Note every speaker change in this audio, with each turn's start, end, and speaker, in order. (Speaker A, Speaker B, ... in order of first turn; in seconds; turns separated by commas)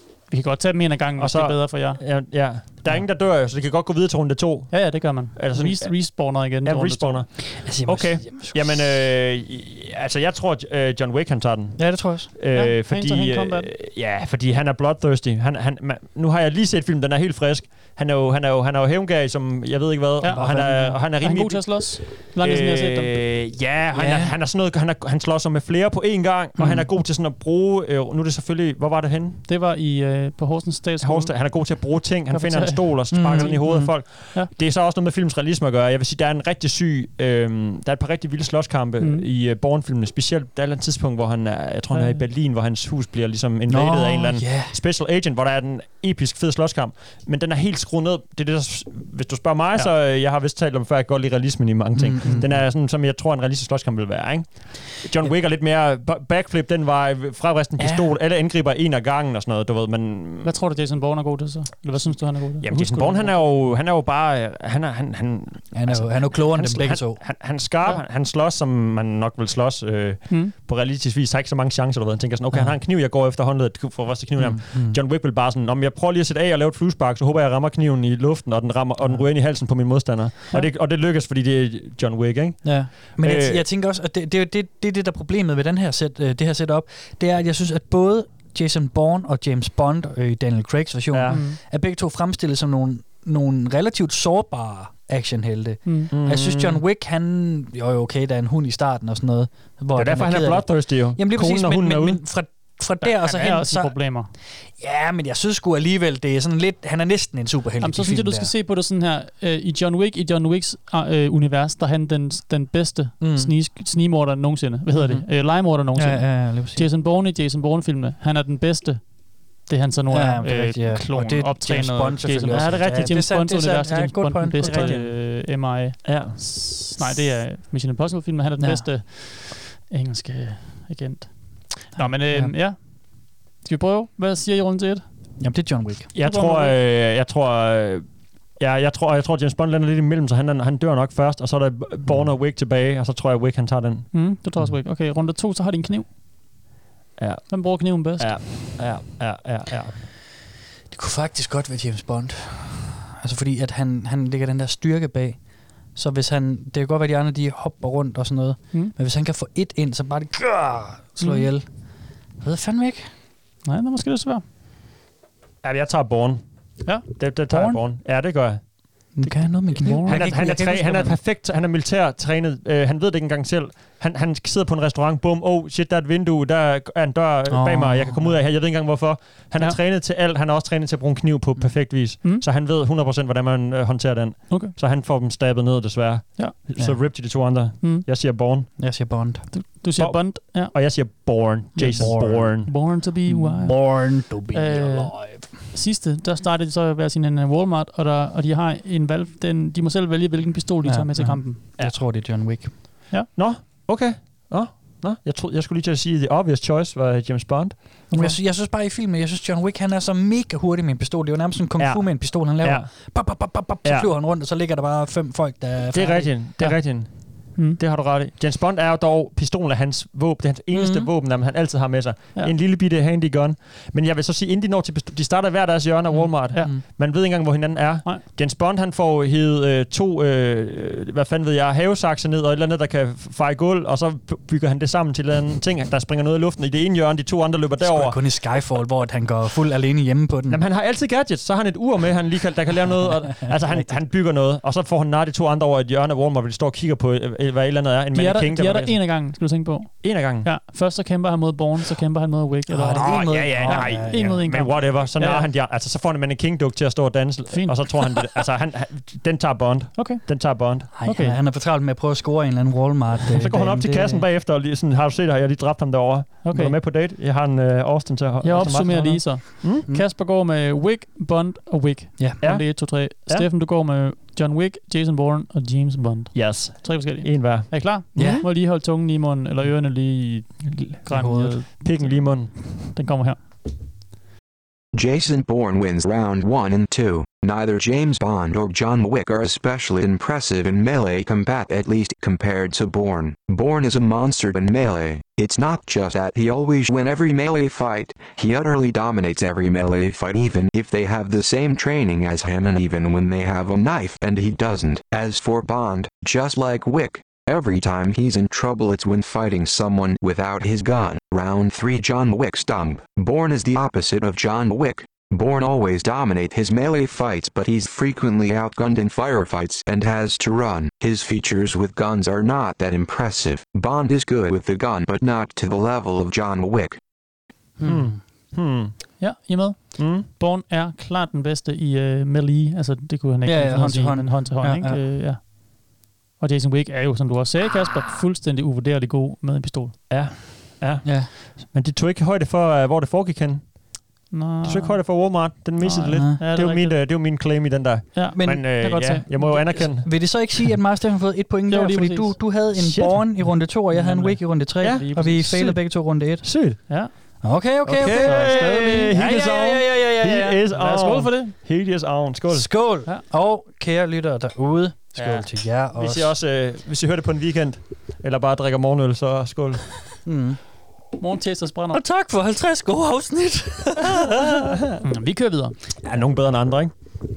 Speaker A: 0.3-2.0, Speaker B: 1.2-29.4, Speaker A: 4.7-7.2, Speaker C: 7.5-8.9, Speaker C: 11.8-12.3, Speaker A: 12.5-13.7, Speaker A: 20.2-23.1, Speaker C: 20.3-21.0, Speaker C: 23.9-24.4, Speaker C: 26.6-26.9, Speaker A: 29.4-31.8, Speaker B: 31.0-60.5, Speaker A: 32.3-34.5, Speaker C: 33.1-34.0, Speaker A: 39.0-39.2, Speaker A: 41.9-42.2, Speaker C: 43.7-44.8, Speaker C: 52.0-52.7, Speaker C: 57.8-58.1, Speaker A: 60.4-63.4, Speaker B: 62.6-83.6, Speaker C: 65.7-67.2, Speaker C: 72.5-72.8, Speaker C: 74.4-75.0, Speaker C: 79.0-79.3, Speaker C: 82.6-108.5, Speaker B: 91.1-91.4, Speaker A: 91.3-91.6, Speaker A: 95.8-96.1, Speaker B: 96.1-96.8, Speaker B: 99.9-102.2, Speaker A: 103.0-104.3, Speaker A: 107.8-135.0, Speaker C: 113.2-113.5, Speaker C: 115.9-116.8, Speaker C: 120.1-125.1, Speaker B: 122.5-123.2, Speaker B: 124.6-125.4, Speaker B: 126.0-126.7, Speaker C: 128.6-128.9, Speaker C: 131.9-132.5, Speaker C: 135.4-136.1, Speaker B: 136.1-144.7, Speaker A: 136.2-136.8, Speaker A: 144.1-146.1, Speaker B: 147.2-150.0, Speaker A: 147.5-148.4, Speaker C: 150.9-163.1, Speaker A: 161.2-161.5, Speaker A: 163.6-164.4, Speaker B: 165.6-169.1, Speaker C: 167.5-167.8, Speaker C: 169.1-171.2, Speaker A: 169.3-170.3, Speaker B: 170.1-188.7, Speaker C: 177.5-178.4, Speaker C: 188.8-189.5, Speaker A: 189.5-191.1, Speaker B: 190.0-193.0, Speaker A: 191.7-201.6, Speaker C: 191.9-195.6, Speaker C: 200.8-202.7, Speaker B: 203.3-208.1, Speaker A: 208.1-208.3, Speaker C: 208.1-216.5, Speaker B: 211.8-213.2, Speaker B: 213.8-214.1, Speaker B: 215.9-238.2, Speaker A: 216.6-217.8, Speaker C: 220.7-221.1, Speaker A: 226.2-226.8, Speaker C: 226.2-226.8, Speaker C: 237.8-240.6, Speaker B: 240.5-249.3, Speaker C: 242.9-244.0, Speaker A: 248.1-255.5, Speaker B: 250.0-250.5, Speaker C: 252.7-254.7, Speaker B: 253.0-260.9, Speaker A: 257.5-257.8, Speaker A: 259.9-261.4, Speaker C: 260.9-264.2, Speaker B: 263.4-269.9, Speaker A: 266.4-266.7, Speaker A: 268.4-283.4, Speaker B: 272.4-273.5, Speaker B: 276.3-277.8, Speaker C: 278.1-278.5, Speaker B: 280.7-282.7, Speaker C: 281.1-281.6, Speaker D: 284.9-327.0, Speaker C: 327.8-328.2, Speaker B: 327.8-329.2, Speaker A: 329.2-340.0, Speaker B: 330.0-330.3, Speaker C: 333.4-335.0, Speaker B: 340.1-350.4, Speaker C: 341.0-341.3, Speaker A: 344.3-347.4, Speaker C: 346.1-346.4, Speaker A: 348.1-349.9, Speaker C: 348.3-348.7, Speaker C: 349.4-356.9, Speaker A: 351.7-352.4, Speaker B: 352.8-353.6, Speaker A: 353.9-355.5, Speaker B: 354.8-357.3, Speaker A: 356.9-357.4, Speaker C: 357.4-360.6, Speaker B: 357.8-362.7, Speaker A: 358.0-359.1, Speaker A: 360.7-361.5, Speaker C: 362.5-366.4, Speaker A: 365.1-365.4, Speaker B: 365.9-370.0, Speaker C: 370.2-370.6, Speaker A: 371.2-372.0, Speaker C: 371.9-374.8, Speaker A: 375.0-375.8, Speaker B: 376.0-376.9